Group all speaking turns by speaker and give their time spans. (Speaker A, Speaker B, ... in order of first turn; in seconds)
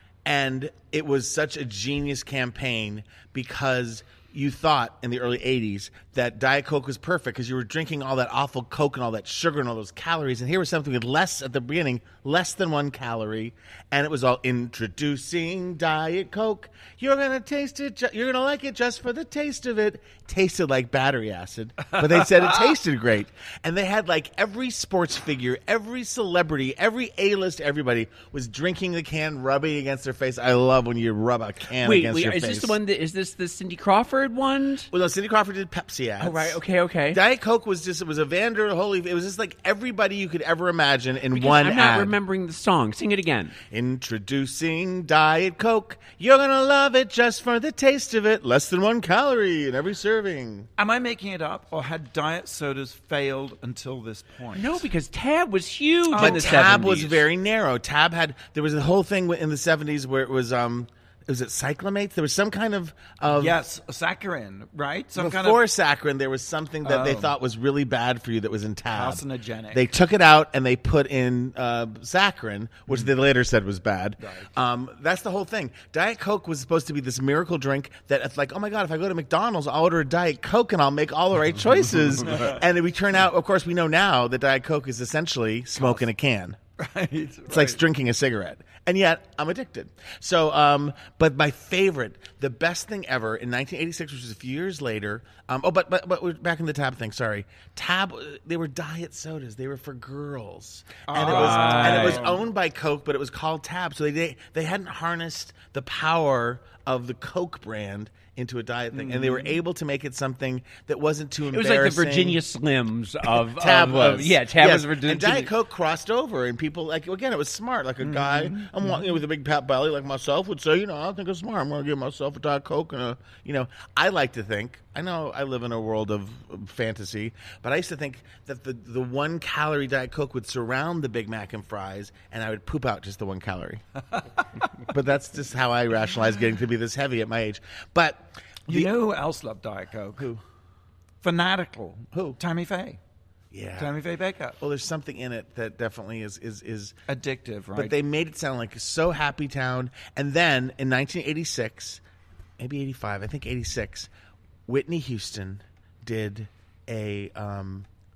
Speaker A: 0.2-32.8, 34.9-36.6, 37.1-42.1, 43.7-50.7, 56.1-63.6, 65.2-86.6, 87.5-112.4, 113.3-133.8, 134.9-138.9, 142.1-142.4, 143.5-143.9, 144.6-146.9, 147.7-152.0, 152.6-154.1, 154.7-157.9
Speaker B: 31.8-34.9, 36.2-37.2, 41.3-43.6, 54.5-57.2, 101.1-102.2, 111.5-115.5
Speaker C: 50.8-54.9, 56.1-56.8, 63.3-65.6, 66.8-67.3, 68.9-69.9, 74.2-74.5, 82.2-82.6, 86.8-87.8, 101.1-102.4, 108.9-109.6, 118.0-119.1, 138.7-140.3, 141.2-143.0, 143.8-144.6, 147.1-148.0